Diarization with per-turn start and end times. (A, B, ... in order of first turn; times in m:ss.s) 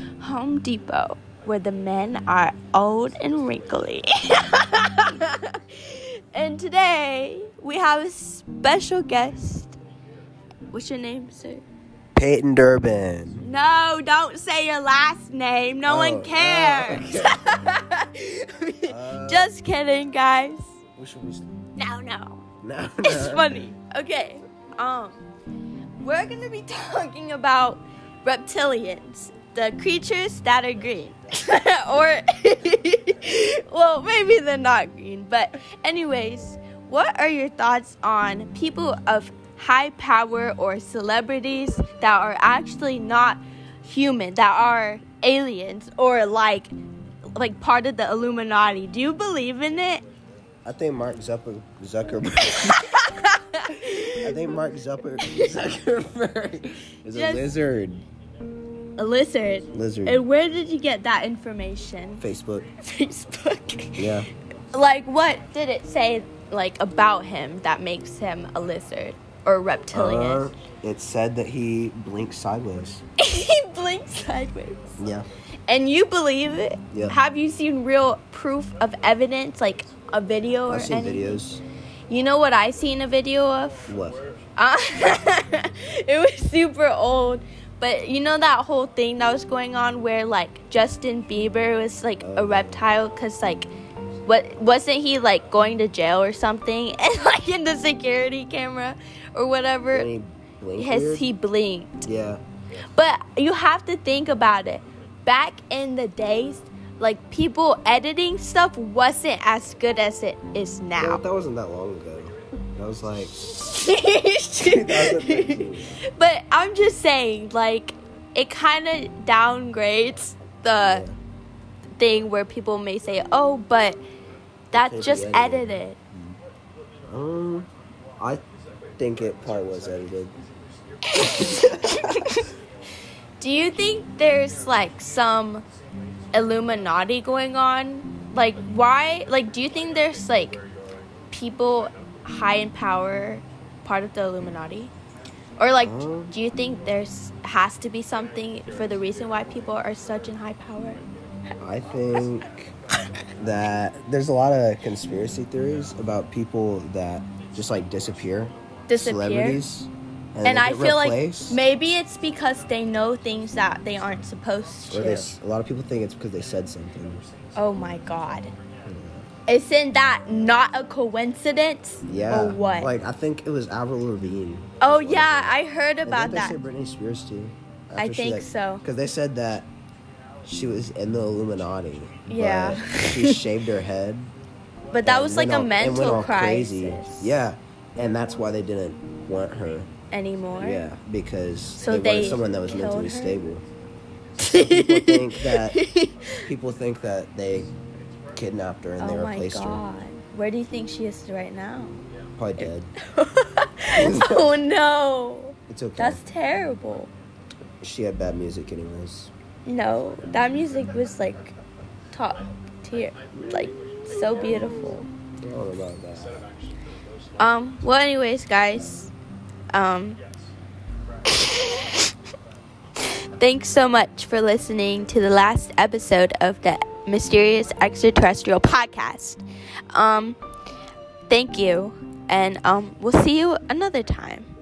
0:00.2-0:09.8 A
0:10.7-0:11.6 A
0:12.1-0:13.4 B
0:13.4-0:20.7 A
0:15.8-0:17.5 B
0:18.9-0:19.5 B
0:21.0-0:21.5 B
0:21.8-0:22.4 A
0:22.6-0:23.6 B
0:23.0-0:25.2 A
0:26.0-0:46.7 A
0:47.4-0:50.0 A
0:50.6-0:52.8 B
0:52.4-0:54.4 A
0:54.2-0:58.0 B
0:55.2-0:55.5 A
0:57.1-0:57.5 A
0:59.0-1:02.2 A
0:59.7-1:00.2 B
1:02.2-1:02.7 B
1:02.8-1:04.1 A
1:04.0-1:04.3 B
1:04.7-1:10.6 A
1:09.9-1:13.0 B
1:13.2-1:15.0 A
1:15.0-1:15.3 B
1:15.7-1:21.4 A
1:16.9-1:17.2 B
1:20.7-1:21.6 B
1:22.1-1:23.9 A
1:23.9-1:24.2 B
1:24.6-1:33.7 A
1:32.2-1:32.8 B
1:34.2-1:40.1 A
1:39.9-1:41.3 B
1:40.8-1:42.1 A
1:42.0-1:42.4 B
1:42.9-1:51.2 A
1:51.0-1:53.4 B
1:53.4-2:01.0 A
1:54.6-1:56.0 B
2:00.8-2:01.2 B
2:02.0-2:04.0 A
2:04.7-2:06.0 A
2:04.7-2:06.4 B
2:07.1-2:08.4 B
2:09.0-2:10.4 B
2:11.0-2:12.5 A
2:11.1-2:12.4 B
2:13.4-2:15.6 A
2:16.3-2:20.6 A
2:21.3-2:24.9 A
2:25.6-2:31.0 A
2:25.8-2:26.4 B
2:31.6-2:32.7 B
2:33.4-2:41.6 B
2:38.9-2:39.6 A
2:40.4-2:45.3 A
2:44.9-2:47.2 B
2:47.6-2:48.5 A
2:48.8-2:49.3 B
2:49.5-2:52.9 A
2:52.1-2:59.7 B
2:54.8-2:56.6 A
2:58.0-2:58.8 A
3:00.4-3:04.3 B
3:02.3-3:03.4 A
3:04.9-3:07.4 A
3:05.0-3:09.9 B
3:10.1-3:10.8 A
3:10.6-3:13.6 B
3:11.8-3:13.4 A
3:14.4-3:16.4 A
3:14.4-3:15.8 B
3:16.4-3:17.7 B
3:18.3-3:19.8 B
3:19.0-3:22.0 A
3:22.4-3:22.9 B
3:22.6-3:27.1 A
3:24.0-3:24.4 B
3:25.7-3:26.2 B
3:27.8-3:29.3 B
3:29.6-3:31.6 A
3:32.1-3:35.1 A
3:35.4-3:36.4 B
3:37.4-3:39.1 A
3:39.7-3:40.2 A
3:41.2-3:42.1 A
3:43.0-3:50.4 A
3:51.3-3:54.5 A